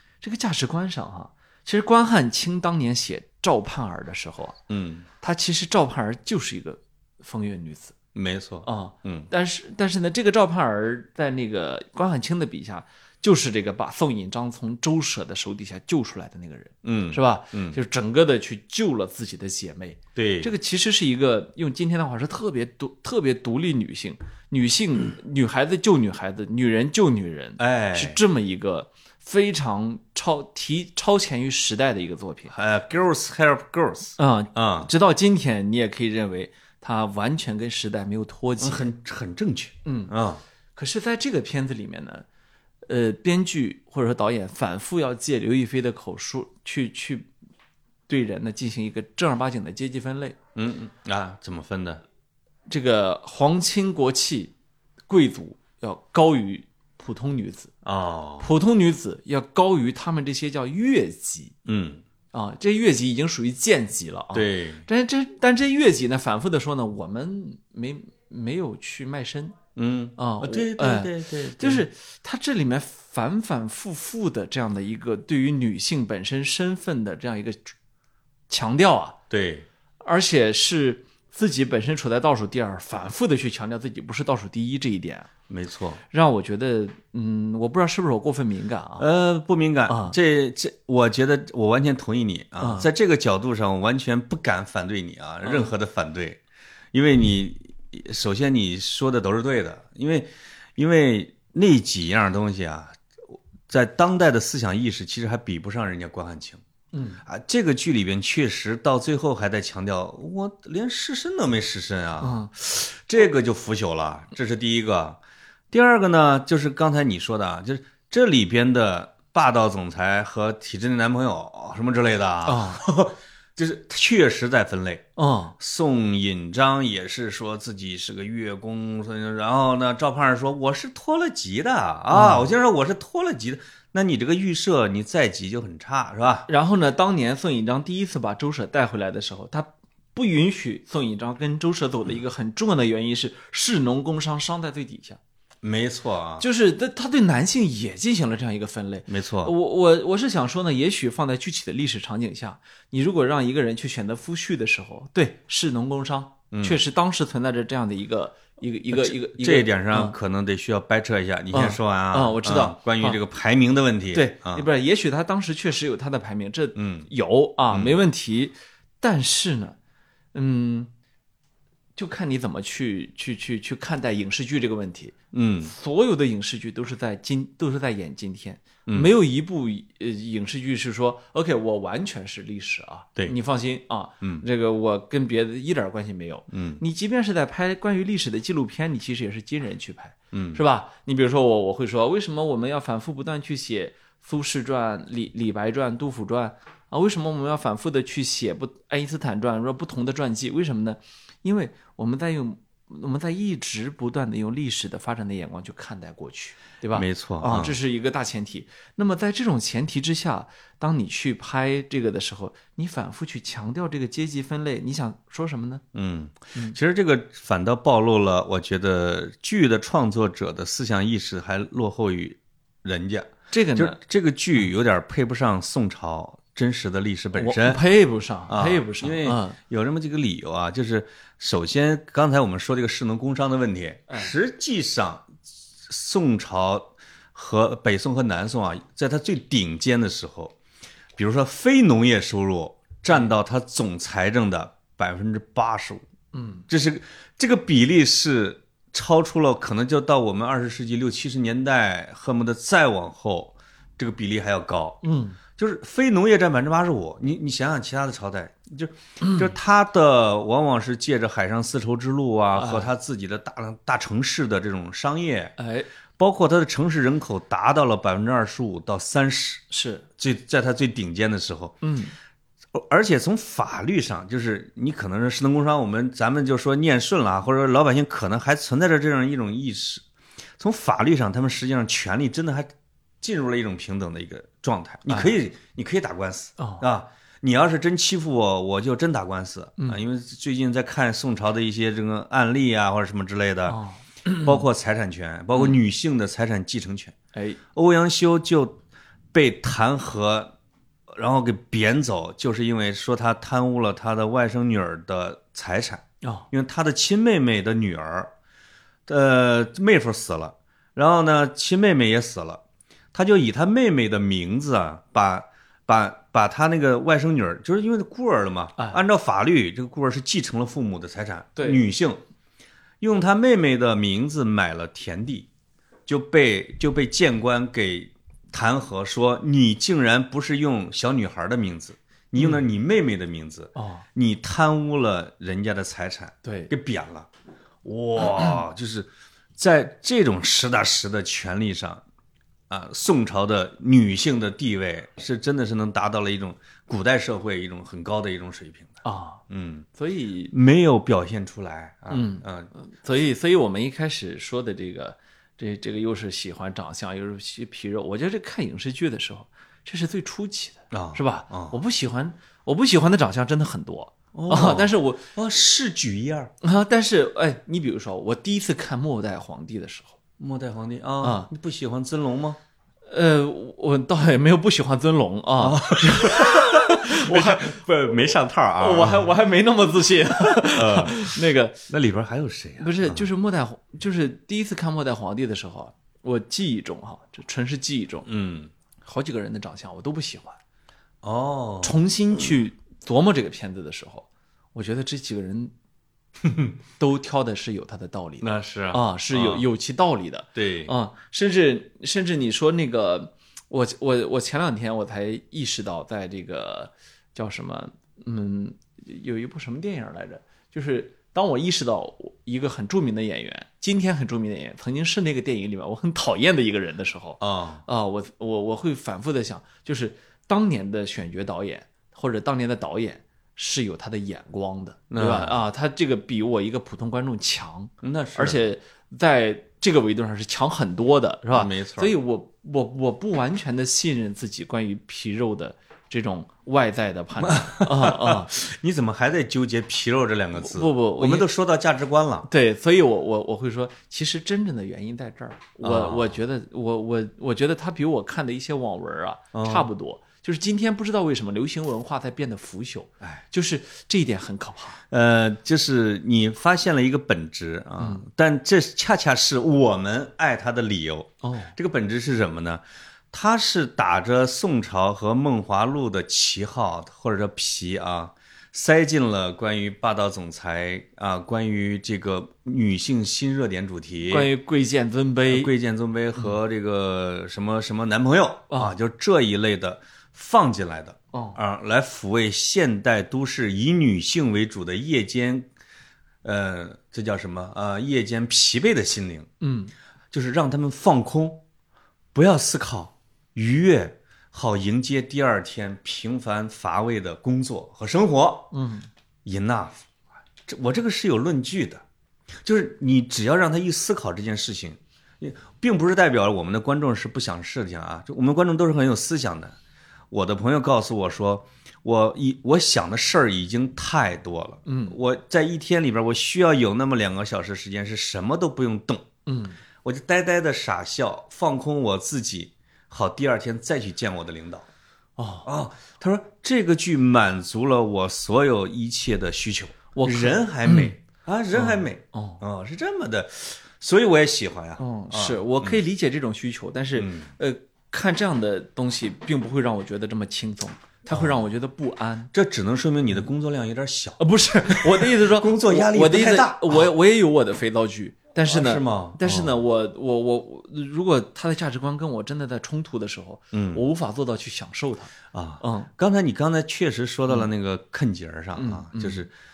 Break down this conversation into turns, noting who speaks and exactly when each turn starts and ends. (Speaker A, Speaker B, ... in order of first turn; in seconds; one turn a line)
Speaker A: 0.2-4.6
Speaker B: 4.7-5.0
Speaker A: 5.2-7.9
Speaker B: 8.1-9.3
Speaker A: 8.6-32.5
Speaker B: 16.8-17.8
Speaker B: 20.1-20.5
Speaker B: 27.6-28.2
Speaker B: 32.5-34.9
Speaker A: 34.2-38.9
Speaker B: 38.6-40.4
Speaker A: 39.8-40.1
Speaker A: 40.8-42.2
Speaker A: 42.9-47.3
Speaker A: 48.1-50.4
Speaker B: 50.5-52.0
Speaker A: 52.7-54.5
Speaker A: 55.1-57.7
Speaker B: 57.8-58.5
Speaker A: 58.4-61.5
Speaker B: 61.6-62.0
Speaker A: 62.3-69.6
Speaker B: 64.3-64.8
Speaker B: 69.8-71.9
Speaker A: 70.2-77.7
Speaker A: 78.5-79.2
Speaker B: 79.3-79.7
Speaker A: 80.0-85.3
Speaker B: 85.5-86.0
Speaker A: 86.1-89.1
Speaker B: 89.0-96.4
Speaker A: 89.9-90.2
Speaker A: 92.6-92.9
Speaker A: 95.4-95.7
Speaker B: 96.9-106.6
Speaker A: 106.9-107.2
Speaker B: 107.2-115.2
Speaker A: 112.2-112.5
Speaker B: 115.7-125.0
Speaker A: 122.4-122.8
Speaker A: 125.2-125.5
Speaker B: 125.6-136.5
Speaker A: 132.1-132.5
Speaker A: 136.5-145.2
Speaker B: 145.6-146.4
Speaker A: 146.4-160.1
Speaker B: 149.1-149.5
Speaker B: 156.5-156.8
Speaker B: 158.9-164.7
Speaker A: 161.5-163.2
Speaker A: 164.1-169.8
Speaker B: 166.8-167.1
Speaker B: 167.7-168.0
Speaker A: 170.3-170.9
Speaker A: 171.9-215.8
Speaker B: 175.3-175.7
Speaker B: 178.9-179.1
Speaker B: 186.5-186.8
Speaker B: 190.3-190.6
Speaker B: 206.9-207.8
Speaker B: 215.9-227.8
Speaker A: 223.5-224.0
Speaker A: 227.3-229.6
Speaker B: 228.5-235.3
Speaker B: 235.8-240.6
Speaker B: 241.2-246.0
Speaker A: 246.3-246.7
Speaker B: 246.7-255.0
Speaker A: 255.0-255.4
Speaker B: 255.6-265.5
Speaker A: 262.5-262.9
Speaker A: 265.6-265.9
Speaker B: 266.2-269.6
Speaker A: 269.7-270.0
Speaker B: 270.2-271.8
Speaker A: 271.8-272.1
Speaker B: 272.7-280.0
Speaker B: 280.6-282.7
Speaker B: 283.2-293.8
Speaker A: 285.1-285.3
Speaker A: 286.6-286.8
Speaker A: 293.7-294.6
Speaker B: 294.4-297.1
Speaker A: 297.3-297.6
Speaker B: 297.7-298.8
Speaker B: 299.3-300.5
Speaker B: 301.1-308.3
Speaker A: 306.2-306.5
Speaker B: 309.1-312.6
Speaker B: 313.1-322.2
Speaker A: 318.8-319.0
Speaker B: 323.0-325.5
Speaker B: 326.1-337.3
Speaker A: 332.4-332.6
Speaker A: 333.7-334.0
Speaker A: 336.4-336.7
Speaker B: 337.8-342.0
Speaker B: 342.7-349.0
Speaker A: 349.0-349.4
Speaker B: 349.5-349.9
Speaker A: 349.9-350.5
Speaker B: 350.5-352.7
Speaker A: 352.1-365.3
Speaker B: 360.9-361.8
Speaker B: 364.3-366.5
Speaker A: 366.6-370.2
Speaker B: 370.4-372.6
Speaker A: 371.2-371.5
Speaker A: 373.1-377.8
Speaker B: 375.6-379.3
Speaker A: 378.8-381.8
Speaker B: 380.7-381.3
Speaker B: 381.9-383.2
Speaker A: 382.8-388.3
Speaker B: 388.2-388.7
Speaker A: 389.0-390.6
Speaker B: 391.2-391.9
Speaker A: 391.8-395.7
Speaker B: 396.4-396.7
Speaker A: 397.0-438.5
Speaker B: 398.4-399.6
Speaker B: 400.6-400.9
Speaker B: 417.4-417.8
Speaker B: 425.1-425.6
Speaker B: 428.0-428.6
Speaker B: 431.5-432.1
Speaker B: 437.4-442.5
Speaker A: 440.6-441.5
Speaker A: 442.5-455.0
Speaker B: 445.8-446.4
Speaker B: 449.5-449.9
Speaker B: 455.1-474.5
Speaker A: 458.0-458.2
Speaker A: 461.4-461.7
Speaker A: 474.2-475.7
Speaker B: 475.5-485.7
Speaker A: 481.3-481.6
Speaker B: 486.4-489.5
Speaker A: 489.6-489.9
Speaker B: 490.3-491.6
Speaker B: 492.3-498.7
Speaker A: 498.7-499.1
Speaker B: 499.4-500.0
Speaker B: 500.7-502.0
Speaker B: 502.6-509.8
Speaker B: 510.3-519.3
Speaker A: 514.9-515.2
Speaker A: 519.5-519.8
Speaker B: 520.0-524.9
Speaker A: 525.4-525.7
Speaker B: 525.6-536.0
Speaker A: 530.1-531.1
Speaker A: 531.7-532.6
Speaker A: 535.0-542.5
Speaker B: 537.1-537.5
Speaker B: 541.3-541.6
Speaker B: 542.5-547.1
Speaker A: 544.4-556.1
Speaker B: 548.6-549.8
Speaker B: 553.7-554.0
Speaker B: 555.5-559.5
Speaker A: 558.8-559.5